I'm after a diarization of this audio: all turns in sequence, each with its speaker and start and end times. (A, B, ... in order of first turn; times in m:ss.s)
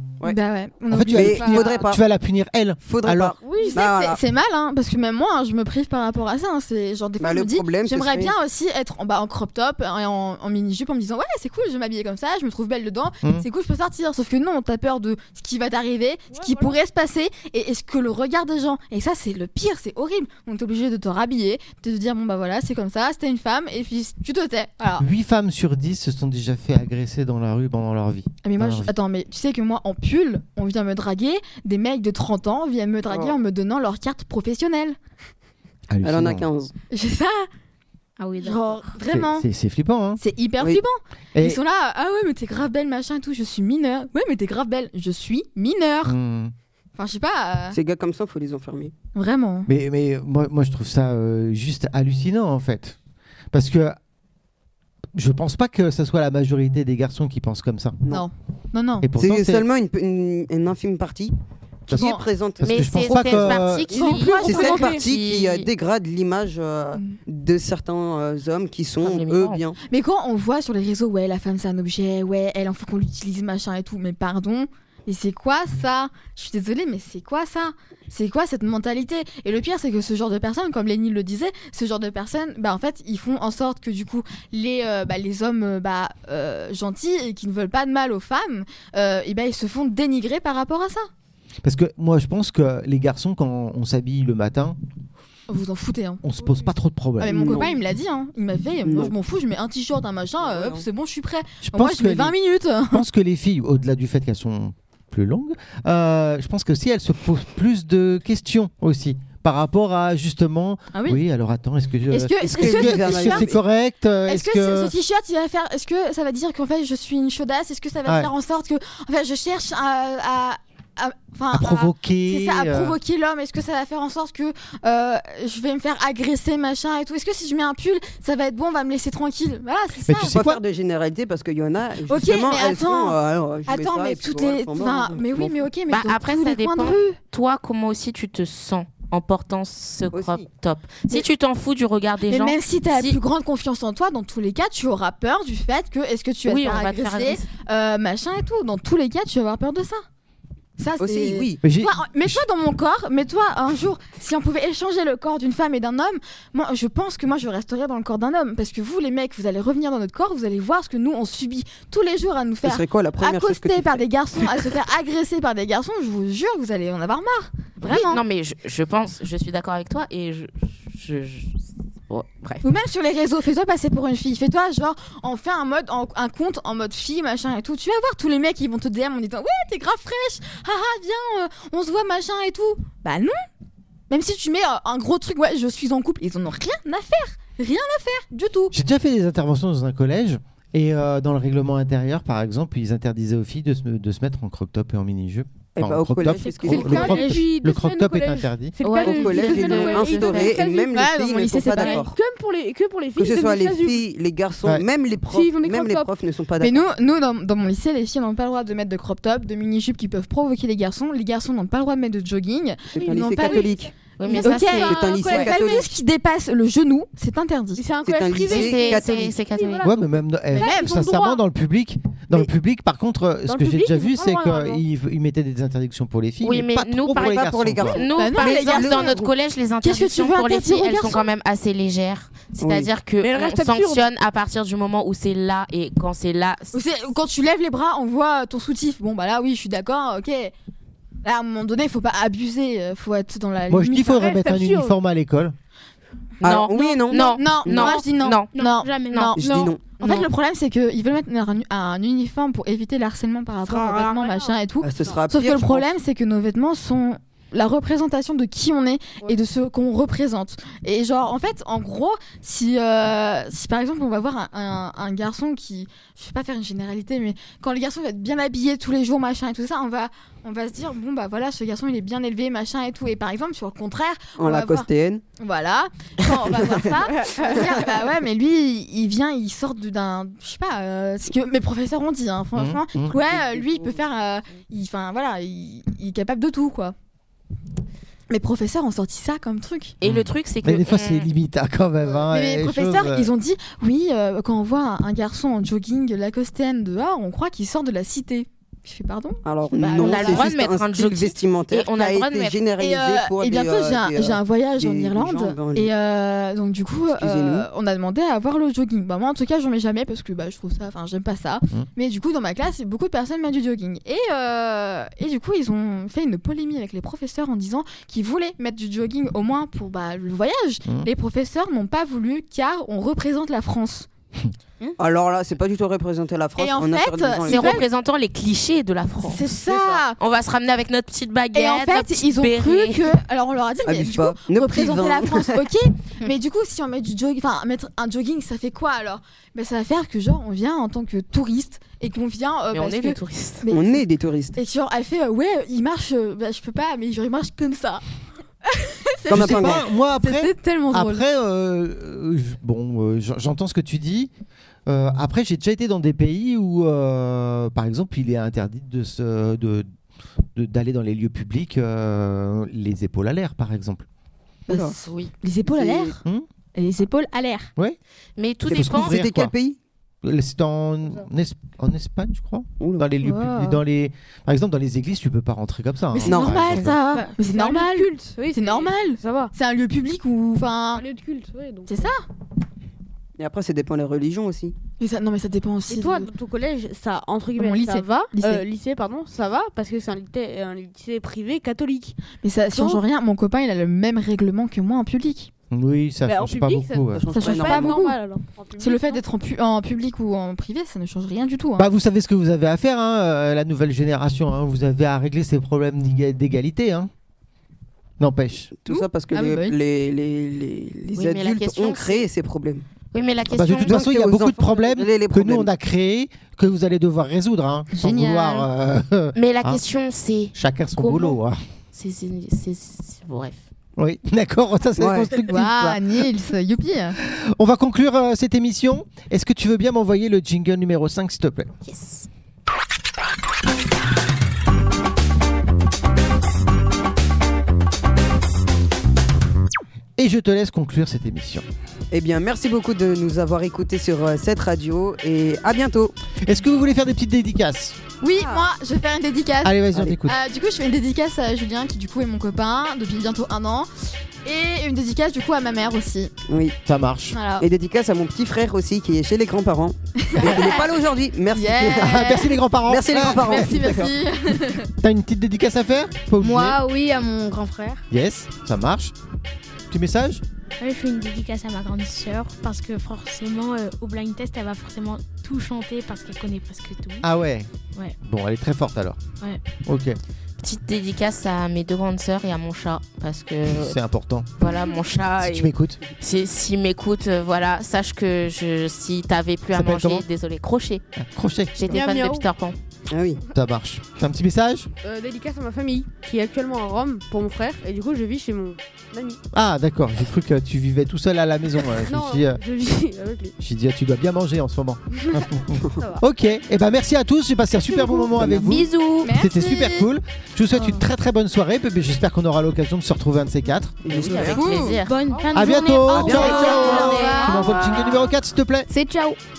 0:00.2-0:01.7 A
0:00.9-0:03.4 B
0:01.1-0:02.0 C
0:02.8-0:04.2 C
0:03.4-0:03.8 D
0:03.6-0:25.1 A
0:07.2-0:08.4 C
0:16.3-0:16.8 D
0:25.0-0:28.9 B
0:28.4-0:35.0 A
0:33.1-0:33.4 C
0:35.9-0:36.5 B
0:36.0-0:36.7 C
0:36.9-0:37.5 A
0:38.2-0:38.9 E
0:38.4-0:39.5 A
0:39.0-0:40.2 B
0:40.2-0:46.2 A
0:41.3-0:41.6 B
0:46.0-0:46.5 B
0:47.0-0:47.8 A
0:47.7-0:48.9 C
0:49.2-0:49.7 A
0:49.7-0:53.0 B
0:53.5-0:54.0 B
0:55.2-0:58.0 B
0:58.1-0:59.1 A
0:59.0-0:59.7 B
0:59.2-1:01.4 C
1:01.9-1:02.2 A
1:01.9-1:03.7 C
1:01.9-1:03.9 B
1:02.6-1:05.7 F
1:03.9-1:05.0 D
1:04.1-1:04.4 A
1:04.4-1:09.8 C
1:09.0-1:09.6 F
1:09.9-1:31.1 A
1:31.6-1:34.8 B
1:35.5-1:36.2 A
1:36.2-1:37.7 B
1:37.2-1:43.0 A
1:37.3-1:37.8 C
1:38.8-1:39.1 C
1:40.4-1:40.9 C
1:41.6-1:42.4 B
1:42.9-1:54.9 B
1:50.9-1:51.2 A
1:52.1-1:53.5 A
1:52.5-1:53.6 C
1:54.3-2:10.4 A
1:58.1-1:58.3 B
2:01.5-2:03.0 B
2:10.1-2:10.6 B
2:10.2-2:15.7 C
2:12.1-2:17.2 A
2:15.9-2:23.2 F
2:20.1-2:20.4 C
2:22.3-2:30.0 A
2:26.5-2:27.5 F
2:30.8-2:48.2 A
2:31.0-2:31.6 C
2:31.6-2:32.5 B
2:42.6-2:44.5 C
2:47.8-2:51.6 F
2:52.1-2:52.6 F
2:52.6-3:03.4 A
3:04.1-3:08.8 A
3:08.7-3:18.8 B
3:15.8-3:17.3 C
3:16.4-3:17.5 G
3:16.7-3:21.0 D
3:18.8-3:20.6 F
3:19.0-3:22.2 C
3:20.9-3:22.0 A
3:21.8-3:24.0 D
3:23.2-3:26.8 C
3:25.3-3:26.1 D
3:26.6-3:33.8 A
3:32.9-3:35.9 C
3:33.0-3:33.7 D
3:34.2-3:35.2 F
3:34.3-3:35.8 D
3:34.3-3:37.8 A
3:37.8-3:41.4 D
3:38.0-3:39.3 C
3:38.5-3:39.9 F
3:39.8-3:48.0 B
3:40.6-3:40.9 A
3:43.5-3:44.8 D
3:46.4-3:56.8 F
3:47.1-3:49.3 C
3:48.1-3:49.3 A
3:49.8-3:51.3 A
3:52.6-3:52.9 C
3:53.2-3:54.0 D
3:56.7-4:00.5 A
4:01.2-4:04.6 A
4:03.7-4:05.6 B
4:04.2-4:04.9 D
4:06.4-4:08.0 C
4:06.4-4:08.5 F
4:07.2-4:34.9 A
4:08.5-4:09.4 G
4:09.4-4:09.8 C
4:09.5-4:09.7 D
4:10.0-4:10.3 F
4:13.7-4:15.2 D
4:14.8-4:15.9 C
4:34.4-4:35.2 C
4:35.4-4:47.0 A
4:36.3-4:36.8 C
4:37.2-4:37.6 D
4:37.4-4:38.0 C
4:42.6-4:43.2 B
4:43.1-4:44.0 C
4:48.3-4:50.0 A
4:50.0-4:51.3 F
4:50.0-4:53.3 B
4:52.3-5:00.5 A
4:59.4-5:05.9 C
5:00.0-5:02.6 F
5:02.8-5:24.1 A
5:07.1-5:07.7 C
5:25.0-5:27.8 C
5:26.6-5:27.8 A
5:27.5-5:29.4 F
5:29.2-5:30.2 A
5:29.7-5:30.0 C
5:30.2-5:33.1 F
5:31.5-5:44.0 A
5:33.8-5:35.6 C
5:42.7-5:43.6 F
5:43.7-5:44.6 C
5:44.6-5:48.0 A
5:48.7-5:51.2 A
5:49.3-5:49.8 C
5:49.3-5:54.3 B
5:54.9-5:59.9 B
6:00.6-6:04.1 B
6:04.7-6:06.2 A
6:05.1-6:05.3 F
6:05.7-6:06.1 C
6:06.8-6:07.7 A
6:08.4-6:09.2 F
6:08.7-6:09.5 B
6:08.7-6:09.8 C
6:10.2-6:17.0 B
6:12.8-6:13.0 C
6:13.2-6:13.8 A
6:16.1-6:21.0 A
6:16.3-6:16.7 C
6:17.2-6:19.5 D
6:20.9-6:22.1 D
6:21.9-6:22.2 A
6:23.4-6:24.8 C
6:25.0-6:26.3 A
6:25.9-6:32.2 D
6:27.6-6:28.6 A
6:32.4-6:35.5 A
6:32.7-6:33.0 D
6:35.7-6:37.2 B
6:36.3-6:39.2 D
6:37.1-6:38.0 C
6:37.3-6:38.2 A
6:38.8-6:41.9 A
6:41.8-6:47.1 B
6:48.2-6:48.7 B
6:48.8-6:52.8 C
6:48.9-6:49.8 A
6:51.1-6:52.3 F
6:53.1-6:54.0 F
6:53.5-6:59.8 B
6:53.7-6:55.7 C
6:57.9-6:58.7 A
6:59.4-7:01.4 F
7:00.5-7:01.6 B
7:01.9-7:03.6 F
7:04.0-7:06.2 B
7:05.0-7:05.3 C
7:05.5-7:07.2 A
7:07.2-7:11.7 B
7:11.8-7:12.3 F
7:20.2-7:21.6 B
7:22.1-7:26.2 C
7:26.4-7:28.0 B
7:28.2-7:33.9 A
7:28.4-7:28.7 C
7:29.6-7:30.4 B
7:34.4-7:36.3 A
7:36.5-7:36.8 C
7:36.9-7:37.4 B
7:37.3-7:37.7 A
7:37.6-7:42.3 C
7:40.2-7:40.8 A
7:41.5-7:42.6 A
7:41.9-7:44.1 B
7:42.9-7:44.1 C
7:43.4-7:44.9 A
7:45.0-7:46.8 B
7:46.4-7:48.0 E
7:48.1-7:49.1 B
7:49.9-7:50.4 B
7:50.8-7:57.3 G
7:57.2-7:59.2 B
7:59.8-8:00.2 B
8:00.6-8:04.0 F
8:03.7-8:04.5 B
8:04.6-8:11.0 F
8:04.7-8:05.0 G
8:05.4-8:06.0 B
8:09.7-8:10.2 B
8:11.2-8:12.0 B
8:11.8-8:12.8 F
8:11.9-8:12.5 D
8:13.1-8:13.4 C
8:13.5-8:14.9 B
8:15.0-8:19.4 D
8:19.5-8:22.6 B
8:22.0-8:23.5 D
8:23.6-8:34.0 B
8:28.4-8:28.9 C
8:28.7-8:29.0 G
8:29.2-8:30.1 A
8:34.0-8:34.7 C
8:34.1-8:35.2 F
8:34.3-8:35.0 A
8:35.0-8:37.8 G
8:35.3-8:35.9 D
8:35.5-8:38.9 B
8:36.2-8:37.4 F
8:36.3-8:37.2 C
8:36.3-8:37.5 E
8:36.3-8:37.7 A
8:38.9-8:39.4 E